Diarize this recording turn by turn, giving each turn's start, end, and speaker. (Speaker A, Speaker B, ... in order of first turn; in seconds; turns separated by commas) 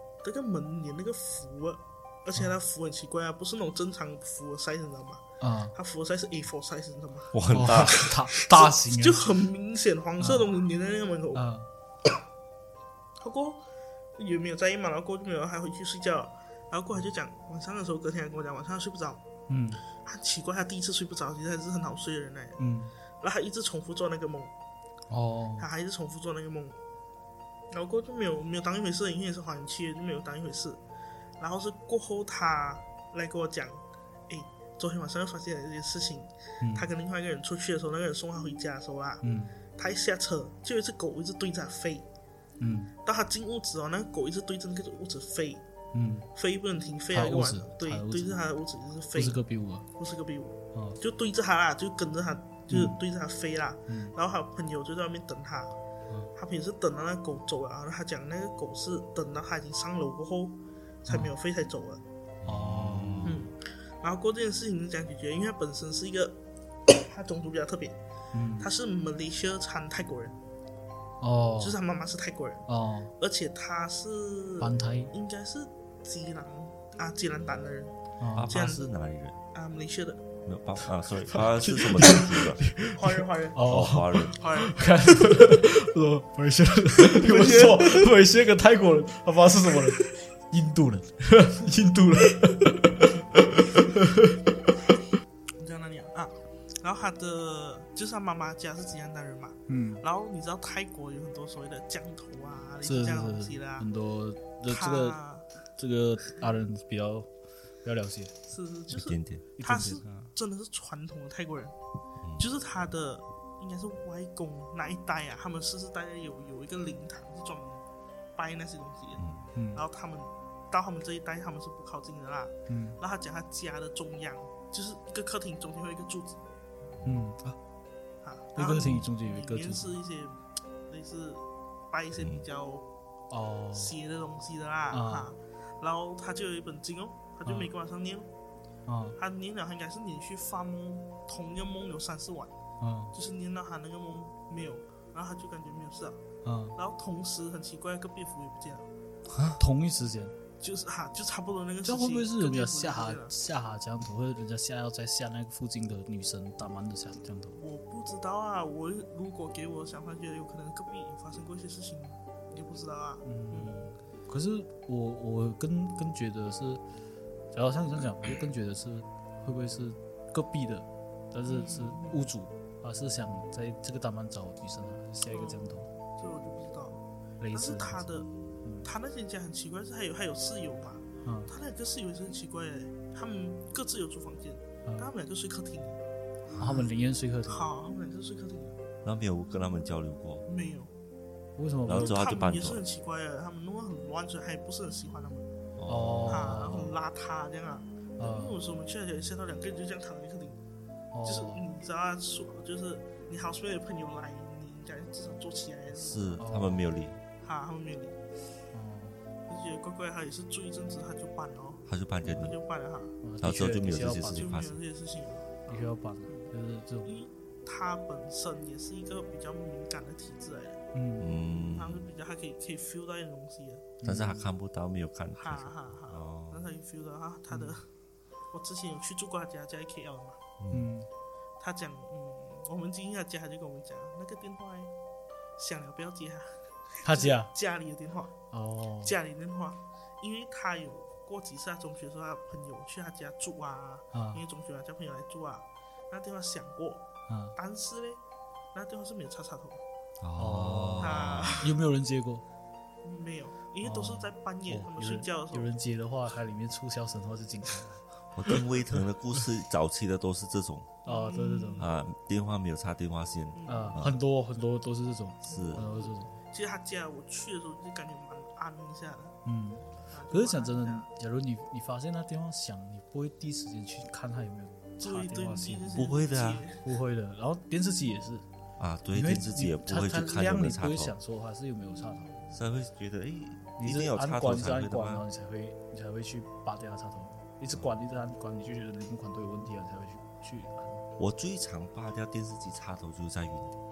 Speaker A: 0.2-5.2, Speaker B: 5.4-5.7, Speaker A: 5.7-11.4, Speaker C: 7.3-8.1, Speaker B: 7.5-9.2, Speaker B: 10.2-10.5, Speaker B: 11.3-11.7, Speaker A: 13.2-13.6, Speaker A: 14.2-19.2, Speaker B: 19.5-19.8, Speaker A: 19.9-22.6, Speaker B: 22.6-22.9, Speaker A: 23.2-24.5, Speaker B: 25.1-25.7, Speaker A: 25.6-26.8, Speaker A: 27.7-30.8, Speaker A: 31.4-39.2, Speaker B: 36.6-36.9, Speaker B: 39.2-39.5, Speaker A: 39.8-42.0, Speaker B: 42.6-42.9, Speaker A: 43.0-45.6, Speaker B: 45.9-46.3, Speaker A: 46.3-49.4, Speaker B: 47.1-48.4, Speaker B: 49.1-49.8, Speaker A: 50.0-55.8, Speaker B: 50.7-51.0, Speaker B: 52.7-53.0, Speaker B: 53.9-54.1, Speaker A: 56.3-62.0, Speaker B: 61.1-61.3, Speaker C: 62.4-63.5, Speaker B: 62.4-63.4, Speaker A: 63.2-68.0, Speaker B: 68.3-68.7, Speaker A: 68.6-70.3, Speaker B: 71.2-71.8, Speaker A: 71.6-72.7, Speaker B: 72.7-73.1, Speaker A: 73.2-77.9, Speaker B: 74.6-75.1, Speaker B: 78.2-78.5, Speaker C: 78.3-79.4, Speaker A: 78.5-78.9, Speaker A: 79.5-80.2, Speaker C: 80.5-82.6, Speaker B: 81.3-94.5, Speaker A: 82.9-83.6, Speaker C: 83.6-84.4, Speaker A: 84.4-84.8, Speaker A: 87.1-88.1, Speaker A: 95.6-103.9, Speaker B: 99.7-100.0, Speaker B: 102.8-105.2, Speaker A: 104.7-105.5, Speaker B: 105.8-107.3, Speaker B: 107.8-108.3, Speaker A: 108.5-111.7, Speaker C: 108.9-109.4, Speaker B: 109.6-110.3, Speaker C: 112.2-112.5, Speaker A: 112.4-117.8, Speaker A: 118.3-126.4, Speaker C: 119.2-119.5, Speaker B: 119.5-119.8, Speaker B: 122.7-123.0, Speaker C: 126.9-127.2, Speaker B: 127.0-127.5, Speaker A: 128.2-132.8, Speaker B: 128.6-129.9, Speaker C: 128.8-129.1, Speaker C: 132.2-132.4, Speaker B: 133.3-133.9, Speaker A: 133.7-138.3, Speaker B: 134.9-135.3, Speaker B: 138.9-139.2, Speaker A: 139.2-142.6, Speaker B: 142.8-143.1, Speaker A: 143.1-146.2, Speaker B: 146.4-146.8, Speaker A: 146.8-148.9, Speaker C: 149.3-149.6, Speaker B: 149.6-150.4, Speaker A: 150.6-153.3, Speaker B: 151.8-157.6, Speaker A: 157.6-163.9, Speaker B: 163.2-166.8, Speaker B: 167.5-175.9, Speaker A: 171.5-172.2, Speaker A: 175.3-178.3, Speaker B: 177.4-178.9, Speaker A: 178.8-186.9, Speaker B: 181.2-181.5, Speaker C: 186.5-186.8, Speaker B: 186.6-187.7, Speaker A: 187.5-188.8, Speaker C: 189.0-190.4, Speaker A: 190.5-190.9, Speaker B: 191.6-192.2, Speaker C: 191.8-192.8, Speaker A: 191.9-195.4, Speaker C: 195.8-196.6, Speaker B: 195.8-196.9, Speaker A: 196.3-200.6, Speaker B: 198.2-198.6, Speaker B: 201.1-201.6, Speaker A: 201.2-206.4, Speaker C: 205.9-207.2, Speaker B: 206.4-206.8, Speaker A: 207.4-208.2, Speaker B: 208.7-209.2, Speaker A: 209.5-213.2, Speaker C: 211.8-212.6, Speaker B: 213.2-214.5, Speaker C: 213.4-214.8, Speaker A: 214.3-216.5, Speaker B: 215.7-217.1, Speaker A: 217.0-220.8, Speaker B: 220.9-221.3, Speaker C: 221.2-222.1, Speaker A: 221.6-223.9, Speaker B: 224.0-224.5, Speaker C: 224.0-226.7, Speaker A: 225.3-227.9, Speaker B: 227.5-227.8, Speaker A: 228.5-230.4, Speaker C: 230.6-230.9, Speaker B: 230.7-231.1, Speaker A: 231.6-234.9, Speaker A: 235.6-238.4, Speaker B: 237.0-237.5, Speaker B: 238.5-239.1, Speaker A: 239.0-248.2, Speaker B: 244.1-244.4, Speaker B: 247.3-247.6, Speaker A: 248.7-249.8, Speaker C: 250.2-251.7, Speaker B: 250.3-252.4, Speaker A: 251.0-251.8, Speaker A: 253.0-255.7, Speaker B: 253.8-258.0, Speaker C: 258.3-261.0, Speaker A: 261.0-261.9, Speaker B: 261.1-261.9, Speaker C: 261.8-264.2, Speaker A: 263.5-264.0, Speaker B: 263.7-266.4, Speaker C: 265.5-265.9, Speaker A: 265.5-269.4, Speaker B: 269.4-276.1, Speaker A: 270.1-271.1, Speaker A: 275.0-276.8, Speaker C: 275.9-276.6, Speaker B: 276.7-278.4, Speaker C: 278.8-281.1, Speaker B: 279.1-282.4, Speaker C: 282.5-285.2, Speaker B: 283.8-291.0, Speaker C: 291.2-293.8